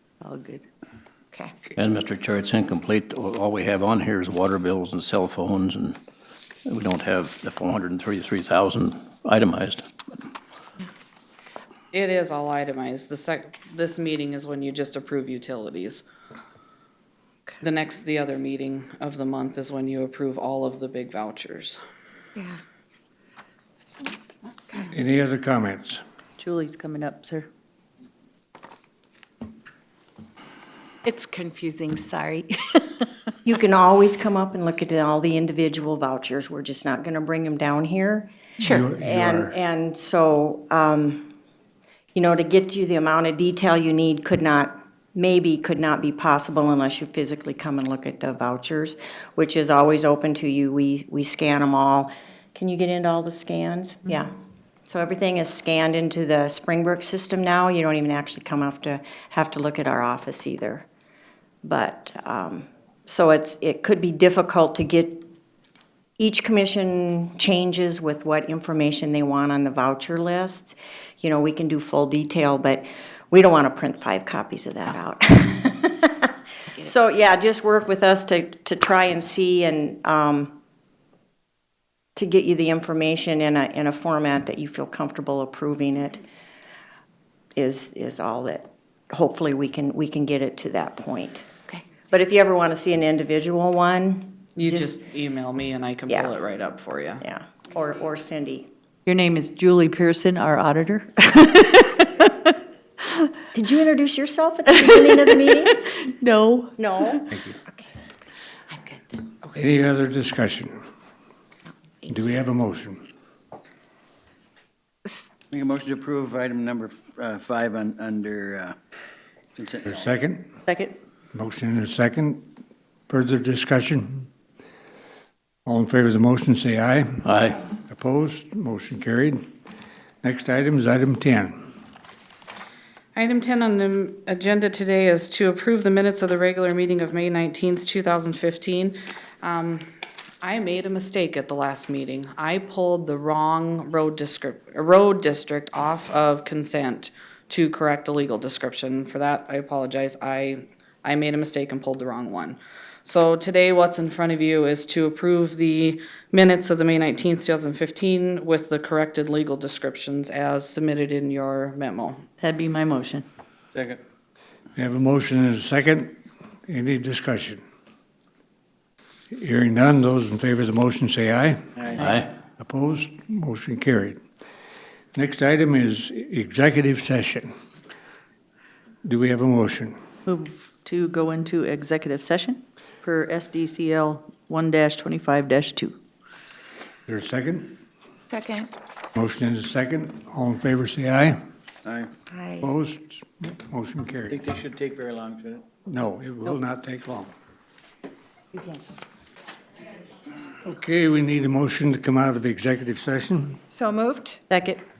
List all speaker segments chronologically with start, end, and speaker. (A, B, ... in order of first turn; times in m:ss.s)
0:00.2-0:00.6 A
0:01.8-0:06.0 B
0:06.7-0:09.8 B
0:11.9-0:16.0 C
0:17.6-0:21.8 C
0:24.8-0:26.0 D
0:26.4-0:27.5 A
0:31.0-0:33.0 E
0:33.4-0:38.3 F
0:38.6-0:39.5 D
0:38.9-0:41.3 F
0:42.1-0:54.3 F
0:54.8-1:00.8 F
1:01.6-1:05.3 F
1:06.2-1:20.6 F
1:22.2-1:26.2 F
1:27.6-1:31.5 F
1:32.1-1:34.9 F
1:34.6-1:37.2 C
1:37.2-1:38.7 F
1:39.0-1:42.3 A
1:43.5-1:45.8 F
1:46.1-1:46.8 A
1:46.8-1:47.2 F
1:49.4-1:50.8 D
1:52.0-1:53.0 D
1:55.5-1:58.7 G
1:59.6-2:00.1 G
1:59.8-2:00.5 D
2:00.7-2:01.0 A
2:01.3-2:02.5 D
2:03.1-2:04.3 D
2:05.6-2:07.2 D
2:07.2-2:07.6 B
2:07.9-2:09.4 D
2:10.2-2:11.6 D
2:13.1-2:19.8 C
2:20.4-2:42.3 C
2:42.4-2:43.2 A
2:44.8-2:46.1 D
2:46.7-2:47.6 D
2:49.3-2:51.6 D
2:52.0-2:52.3 B
2:52.6-2:54.2 D
2:55.1-2:57.5 D
2:59.0-3:00.0 D
3:00.2-3:06.0 A
3:07.1-3:07.8 D
3:08.3-3:08.7 E
3:09.1-3:11.4 D
3:12.6-3:14.4 D
3:14.3-3:15.6 G
3:15.8-3:17.3 D
3:20.6-3:23.6 D
3:23.7-3:24.4 E
3:24.5-3:24.8 F